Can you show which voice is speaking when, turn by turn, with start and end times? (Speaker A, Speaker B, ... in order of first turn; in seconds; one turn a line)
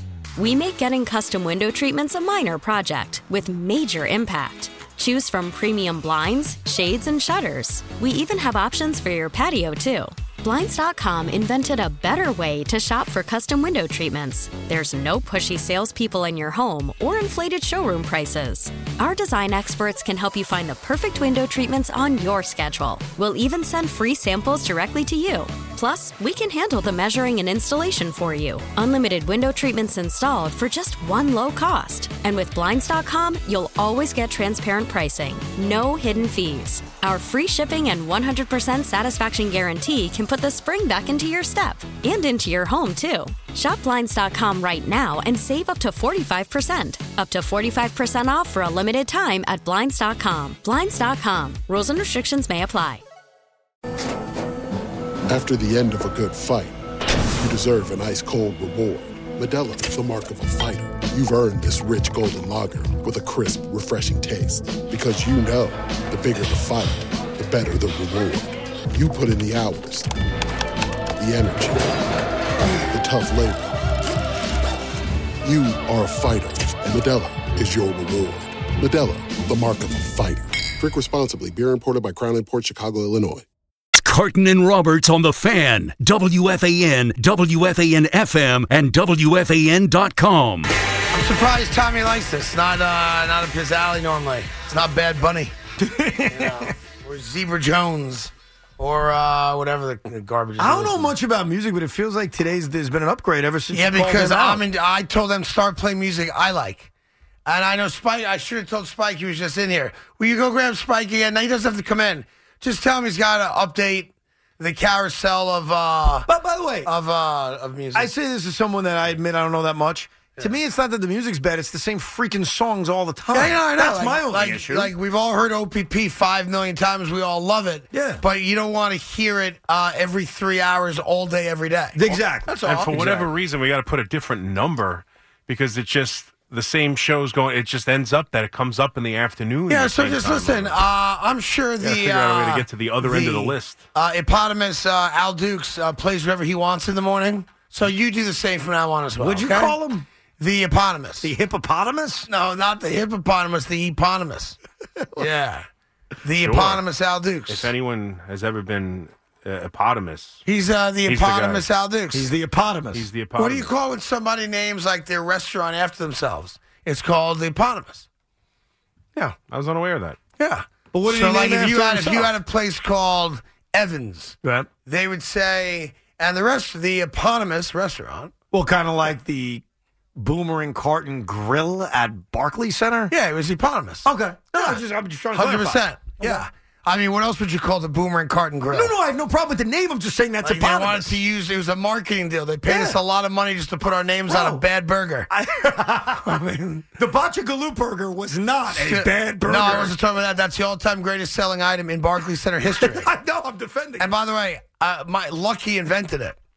Speaker A: 0.3-53.0
Speaker B: 55.3-56.8
Speaker B: 57.4-70.1
Speaker B: 71.2-72.0
Speaker B: 72.9-73.8
Speaker B: 75.4-83.5
Speaker C: 84.0-90.7
Speaker D: 91.1-95.5
Speaker E: 95.8-96.7
Speaker D: 96.3-101.1
Speaker E: 100.6-104.6
Speaker D: 103.7-106.9
Speaker D: 107.5-116.3
Speaker E: 116.3-116.9
Speaker D: 116.8-118.1
Speaker E: 117.9-124.9
Speaker D: 123.3-133.3
Speaker E: 127.9-128.2
Speaker E: 131.9-133.1
Speaker F: 132.6-140.8
Speaker D: 139.7-149.7
Speaker F: 141.8-143.9
Speaker E: 149.2-150.1
Speaker D: 150.4-151.3
Speaker E: 151.2-152.3
Speaker D: 152.3-154.6
Speaker D: 155.2-155.7
Speaker D: 156.2-157.7
Speaker F: 156.4-156.8
Speaker F: 157.5-160.4
Speaker D: 160.4-162.3
Speaker F: 161.1-161.7
Speaker E: 162.1-163.1
Speaker F: 162.9-163.7
Speaker D: 163.3-168.1
Speaker F: 169.5-170.2
Speaker D: 170.4-178.3
Speaker E: 170.9-172.3
Speaker E: 174.4-174.7
Speaker E: 178.5-179.6
Speaker E: 180.2-183.1
Speaker D: 183.1-184.8
Speaker E: 184.0-186.4
Speaker D: 185.3-188.9
Speaker E: 188.7-191.2
Speaker D: 190.4-195.3
Speaker E: 192.7-193.0
Speaker E: 194.3-194.6
Speaker E: 195.3-196.4
Speaker D: 196.2-196.8
Speaker E: 197.0-199.9
Speaker D: 198.7-203.1
Speaker E: 202.8-204.1
Speaker D: 204.0-206.4